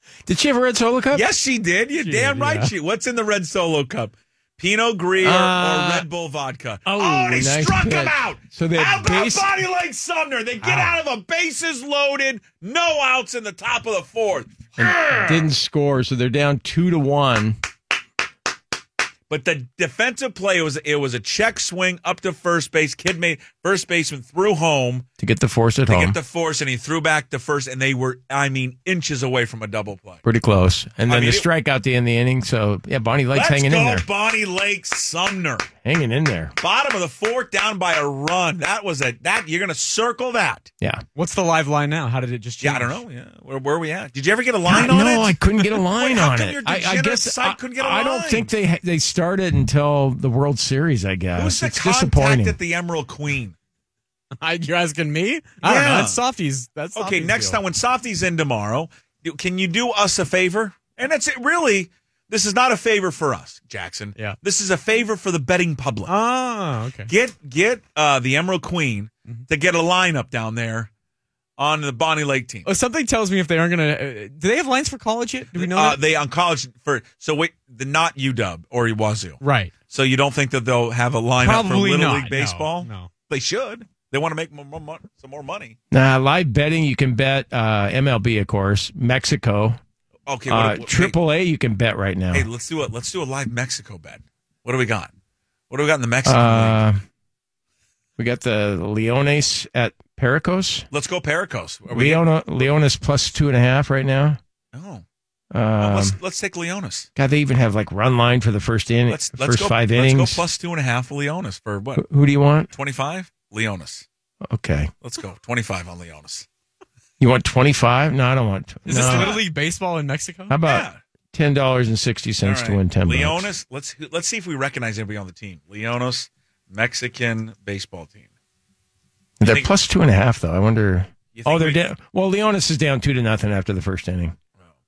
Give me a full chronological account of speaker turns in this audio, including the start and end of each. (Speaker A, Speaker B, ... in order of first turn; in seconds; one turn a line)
Speaker A: 0.2-1.2
Speaker B: 1.1-14.7
Speaker C: 2.0-2.6
Speaker A: 5.2-6.0
Speaker A: 6.8-9.5
Speaker A: 10.6-10.9
Speaker A: 14.8-17.6
Speaker B: 19.3-25.1
Speaker A: 25.2-26.2
Speaker B: 25.9-30.2
Speaker A: 30.2-34.0
Speaker B: 31.1-31.4
Speaker B: 33.3-35.7
Speaker A: 35.8-36.5
Speaker B: 36.6-40.7
Speaker C: 41.1-43.0
Speaker B: 42.6-48.5
Speaker A: 44.6-52.6
Speaker B: 51.3-53.5
Speaker C: 54.4-57.6
Speaker B: 55.6-56.2
Speaker B: 56.9-66.1
Speaker C: 66.0-67.1
Speaker B: 67.1-70.9
Speaker B: 71.6-72.7
Speaker C: 72.7-76.0
Speaker B: 75.5-85.8
Speaker C: 79.4-79.7
Speaker C: 81.4-83.1
Speaker A: 85.9-89.8
Speaker B: 90.3-91.1
Speaker A: 90.5-92.5
Speaker B: 92.3-95.1
Speaker B: 95.7-96.8
Speaker A: 96.2-97.0
Speaker A: 98.2-100.9
Speaker B: 100.9-102.7
Speaker A: 101.9-104.4
Speaker B: 104.7-105.0
Speaker A: 105.5-106.2
Speaker B: 105.8-107.1
Speaker A: 107.2-110.4
Speaker B: 109.1-112.0
Speaker A: 112.0-112.7
Speaker B: 112.7-114.0
Speaker A: 114.5-114.9
Speaker B: 115.0-116.5
Speaker A: 117.2-119.4
Speaker C: 118.8-120.6
Speaker B: 118.9-119.4
Speaker A: 120.5-123.5
Speaker B: 120.6-121.0
Speaker B: 122.4-128.3
Speaker A: 129.4-134.3
Speaker B: 129.4-129.7
Speaker B: 131.3-131.8